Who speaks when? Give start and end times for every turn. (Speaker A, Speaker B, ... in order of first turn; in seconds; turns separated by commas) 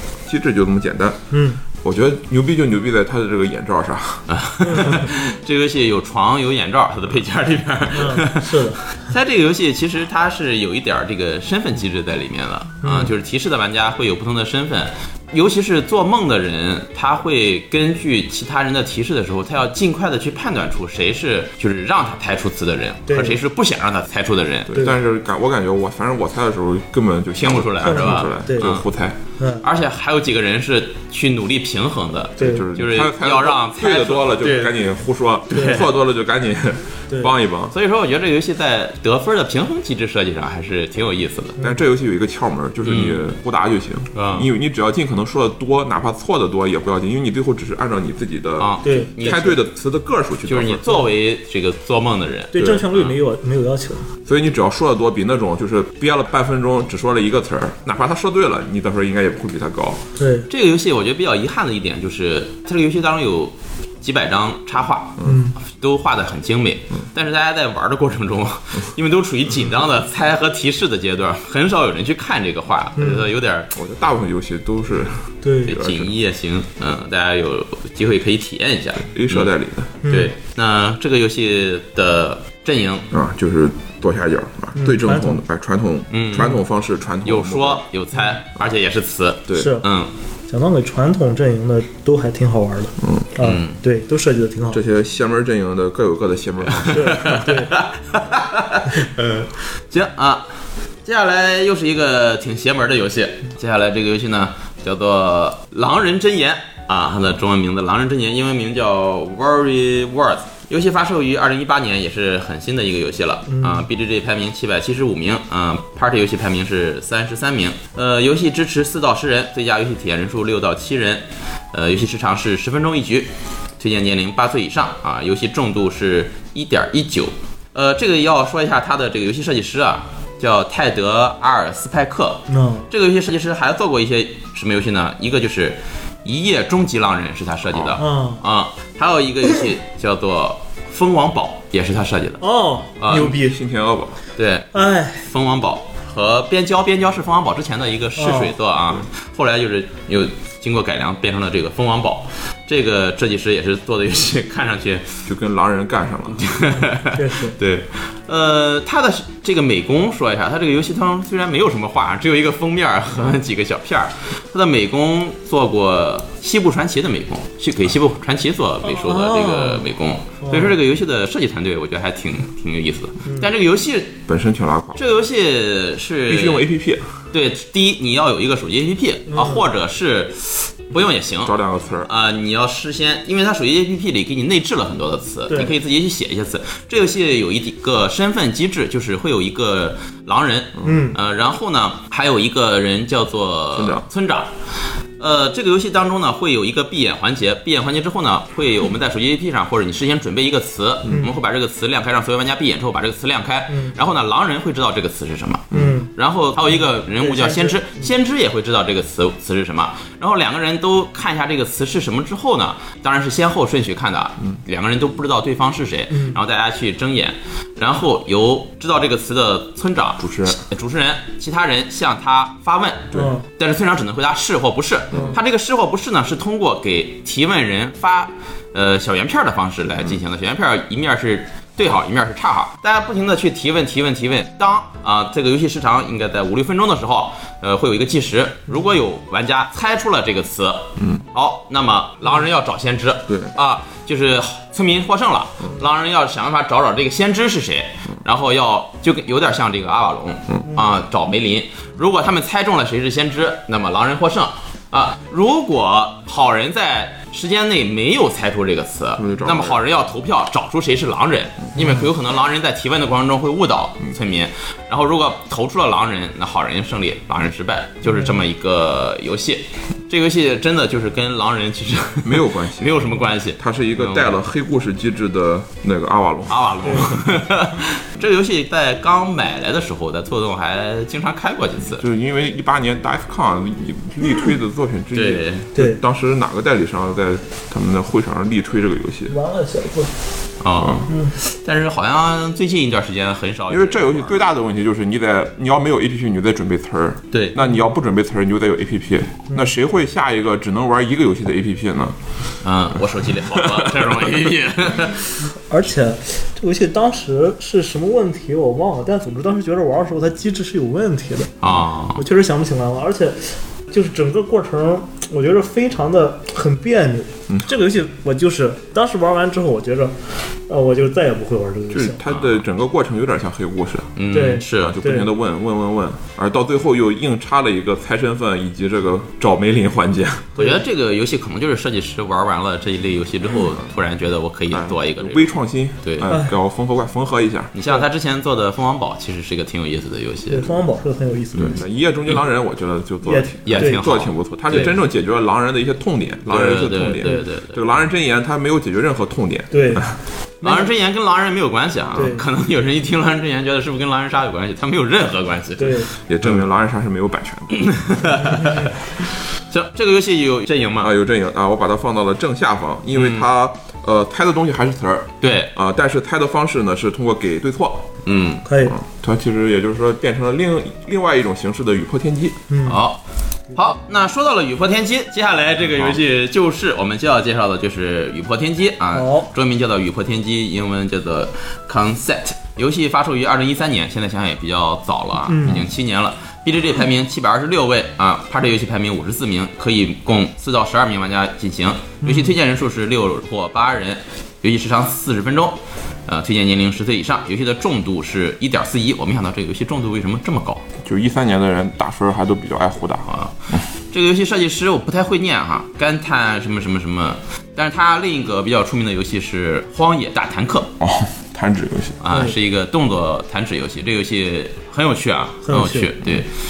Speaker A: 0.3-1.2, Speaker B: 1.3-1.6, Speaker A: 1.8-4.3, Speaker C: 4.3-24.8, Speaker B: 4.6-5.1, Speaker B: 7.9-8.8, Speaker B: 12.8-13.1, Speaker B: 23.1-23.4, Speaker A: 24.7-29.2, Speaker C: 27.4-28.9, Speaker B: 27.8-28.7, Speaker B: 29.4-29.6, Speaker C: 29.6-34.8, Speaker B: 32.4-32.6, Speaker A: 32.4-37.7, Speaker C: 35.5-35.9, Speaker B: 35.5-35.9, Speaker C: 37.7-41.6, Speaker A: 41.6-50.9, Speaker C: 42.8-43.2, Speaker C: 44.1-44.5, Speaker C: 48.6-49.6, Speaker B: 48.8-49.5, Speaker C: 50.5-53.2, Speaker B: 52.5-54.0, Speaker A: 54.3-60.0, Speaker B: 60.2-60.5, Speaker C: 60.5-73.7, Speaker B: 65.2-65.5, Speaker B: 73.0-73.3, Speaker A: 73.7-76.1, Speaker B: 75.4-75.8, Speaker C: 75.7-79.5, Speaker A: 79.1-79.9, Speaker B: 80.0-80.3, Speaker C: 80.1-83.1, Speaker A: 83.1-87.8, Speaker B: 84.8-85.4, Speaker C: 86.1-86.6, Speaker C: 87.2-90.1, Speaker B: 89.5-89.9, Speaker B: 90.5-94.8, Speaker A: 93.0-93.3, Speaker C: 93.4-93.8, Speaker A: 94.7-97.4, Speaker C: 96.7-100.5, Speaker B: 96.9-97.7, Speaker C: 101.0-142.4, Speaker B: 113.5-113.9, Speaker B: 132.5-132.9, Speaker A: 137.7-138.0, Speaker B: 138.0-138.4, Speaker B: 142.4-143.6, Speaker C: 143.0-143.4, Speaker A: 143.1-144.2, Speaker C: 144.4-155.2, Speaker B: 144.7-145.3, Speaker B: 148.2-148.6, Speaker A: 155.3-156.5, Speaker C: 156.3-174.2, Speaker B: 157.1-157.6, Speaker B: 168.8-169.8, Speaker B: 170.4-170.8, Speaker A: 174.3-175.0, Speaker C: 175.0-176.7, Speaker A: 176.3-177.1, Speaker C: 177.3-194.5, Speaker B: 179.3-179.6, Speaker A: 181.4-182.1, Speaker B: 185.5-185.7, Speaker B: 190.8-191.2, Speaker A: 193.8-194.1, Speaker C: 195.2-274.3, Speaker B: 203.7-203.9, Speaker B: 205.7-206.1, Speaker B: 207.2-208.0, Speaker B: 216.1-216.4, Speaker A: 220.2-220.6, Speaker B: 223.1-223.4, Speaker A: 225.1-225.4, Speaker A: 241.0-241.2, Speaker A: 243.3-243.5, Speaker A: 259.2-259.8, Speaker B: 261.8-262.1, Speaker A: 272.2-277.2, Speaker C: 276.5-282.0, Speaker B: 276.8-277.1, Speaker A: 282.0-289.4, Speaker C: 285.1-285.7, Speaker B: 289.3-290.1, Speaker C: 290.6-294.4, Speaker A: 290.8-291.1, Speaker B: 291.1-291.3, Speaker A: 293.7-302.2, Speaker C: 297.3-297.6, Speaker C: 302.6-305.4, Speaker A: 303.5-304.2, Speaker B: 305.7-311.6, Speaker C: 311.6-312.2, Speaker B: 312.2-320.1, Speaker B: 320.7-322.2, Speaker A: 321.9-330.6, Speaker C: 322.3-322.6, Speaker C: 324.2-325.0, Speaker B: 324.3-325.3, Speaker C: 330.6-336.3, Speaker A: 334.7-337.7, Speaker C: 337.8-340.8, Speaker B: 340.5-341.8, Speaker A: 341.6-350.2, Speaker B: 343.2-344.1, Speaker C: 343.7-344.9, Speaker C: 346.5-347.8, Speaker B: 347.0-347.4, Speaker B: 349.7-350.1, Speaker B: 350.6-350.9, Speaker C: 350.6-356.1, Speaker B: 352.1-352.4, Speaker B: 355.8-356.1, Speaker A: 356.3-357.9, Speaker C: 357.7-361.1, Speaker B: 358.6-358.9, Speaker A: 361.0-368.1, Speaker C: 363.1-363.5, Speaker C: 365.4-365.7, Speaker C: 368.2-368.6, Speaker B: 368.6-368.9, Speaker A: 368.9-372.6, Speaker B: 372.7-373.0, Speaker C: 372.9-373.2, Speaker C: 373.7-400.8, Speaker B: 379.1-379.5, Speaker B: 385.5-385.8, Speaker B: 392.2-392.6, Speaker A: 401.0-403.8, Speaker C: 403.3-410.9, Speaker A: 411.0-412.2, Speaker C: 412.2-416.5, Speaker B: 412.3-412.6, Speaker B: 415.7-416.1